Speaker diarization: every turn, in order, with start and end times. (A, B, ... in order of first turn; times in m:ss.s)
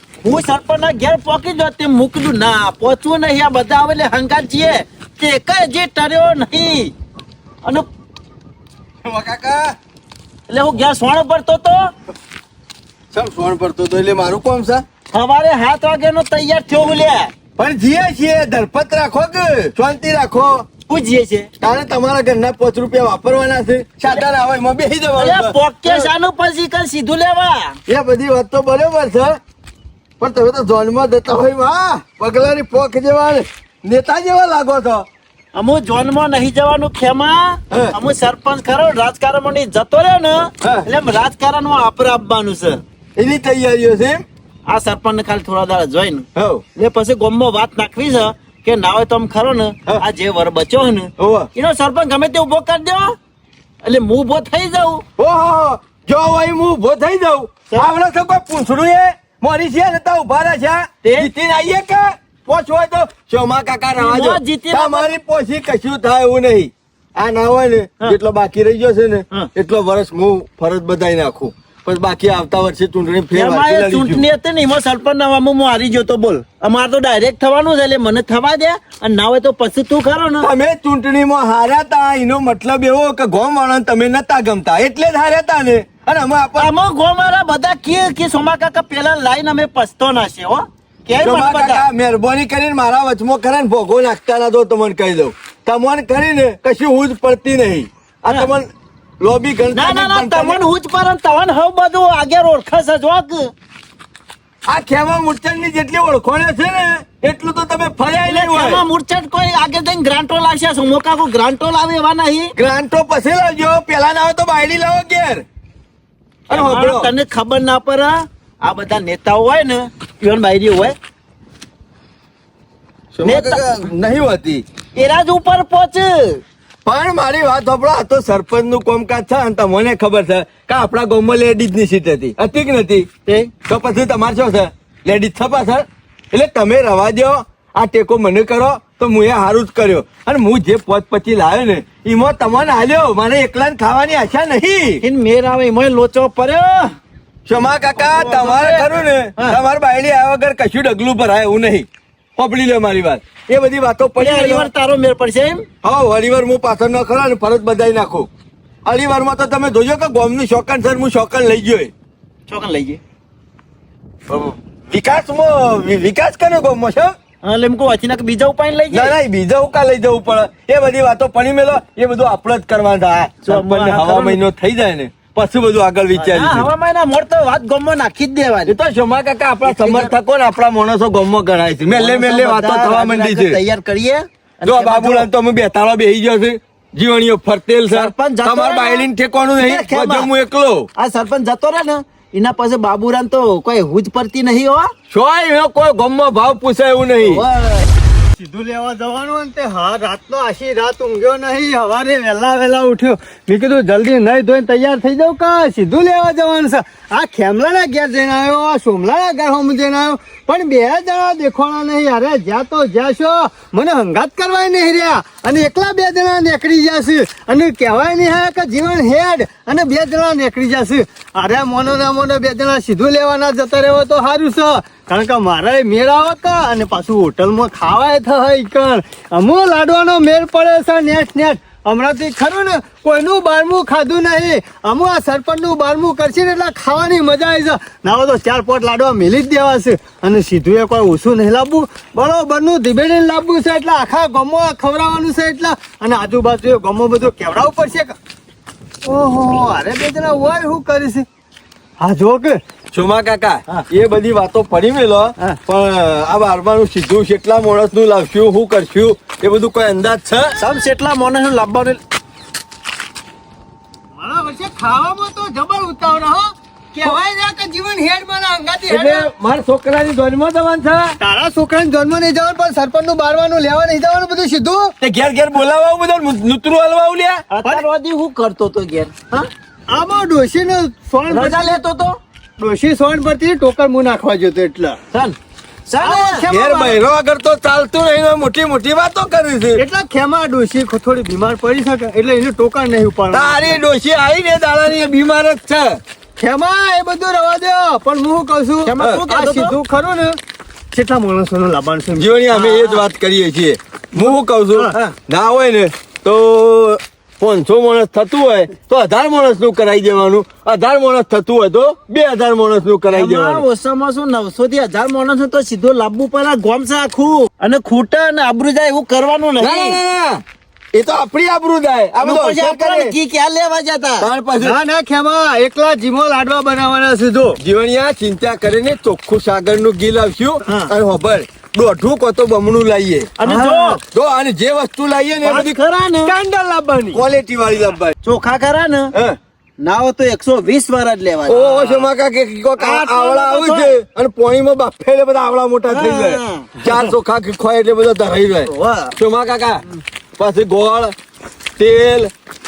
0:00.2-0:06.9 A
0:09.0-0:09.8 B
0:10.5-0:11.9 A
0:13.1-0:14.8 B
0:15.1-0:17.3 A
0:17.6-0:20.7 B
0:20.9-0:21.5 A
0:21.6-0:26.1 B
0:25.2-0:27.8 A
0:27.9-0:29.4 B
0:30.2-0:35.1 B
0:35.6-0:42.8 A
0:43.2-0:44.2 B
0:44.7-0:53.2 A
0:46.4-0:46.6 B
0:51.2-0:51.5 B
0:53.8-0:55.0 A
0:55.2-1:14.2 B
1:01.0-1:01.3 A
1:04.0-1:05.1 A
1:13.3-1:20.5 A
1:20.4-1:26.7 B
1:26.6-1:31.8 A
1:31.2-1:40.6 B
1:39.7-1:43.5 A
1:44.7-1:48.9 B
1:48.2-1:52.5 A
1:52.6-1:55.4 B
1:56.5-2:01.0 A
1:56.5-1:57.1 B
2:03.2-2:04.7 B
2:03.2-2:03.6 A
2:05.0-2:06.4 A
2:06.9-2:13.1 B
2:13.3-2:13.5 A
2:13.7-2:25.0 B
2:25.0-2:26.9 A
2:27.5-2:34.7 B
2:28.0-2:28.9 A
2:34.2-2:35.6 A
2:35.8-2:38.3 B
2:38.9-2:41.9 B
2:42.5-2:43.0 A
2:44.3-2:47.2 B
2:47.4-2:49.1 A
2:48.9-2:56.7 B
2:53.4-2:54.4 A
2:56.2-2:58.8 A
2:58.7-3:03.6 B
2:59.7-3:00.1 A
3:02.0-3:05.3 A
3:04.6-3:10.9 B
3:07.9-3:09.1 A
3:09.6-3:10.3 A
3:11.0-3:14.9 A
3:15.1-3:17.4 B
3:17.2-3:17.9 A
3:18.4-4:08.2 C
4:09.0-4:11.3 C
4:12.0-4:12.6 C
4:12.9-4:20.6 B
4:20.6-4:22.0 A
4:24.2-4:29.3 C
4:28.9-4:31.2 B
4:31.2-4:34.9 C
4:35.0-4:37.4 B
4:37.5-4:39.5 A
4:39.9-4:41.8 C
4:41.3-4:42.2 A
4:42.6-4:45.0 C
4:45.9-4:46.4 A
4:46.0-4:47.0 C
4:46.5-4:49.8 B
4:49.8-4:53.8 C
4:53.3-4:56.0 B
4:56.4-5:00.4 C
4:58.8-4:59.8 A
4:59.0-4:59.2 B
5:00.9-5:02.7 C
5:02.2-5:13.6 B
5:02.6-5:03.0 A
5:04.2-5:04.9 C
5:13.1-5:20.0 A
5:19.6-5:20.4 B
5:21.0-5:23.1 B
5:22.2-5:24.3 A
5:24.2-5:24.8 B
5:24.6-5:27.6 C
5:27.6-5:33.3 B
5:30.7-5:30.9 A
5:33.4-5:34.0 A
5:33.4-5:34.0 C
5:34.1-5:35.8 B
5:35.4-5:36.3 A
5:36.3-5:37.2 C
5:37.1-5:38.1 B
5:38.2-5:39.1 A
5:39.8-5:42.0 A
5:41.5-5:49.8 B
5:42.8-5:43.9 A
5:45.9-5:46.7 A
5:48.7-5:49.1 A
5:50.4-5:51.2 B
5:51.8-5:52.3 B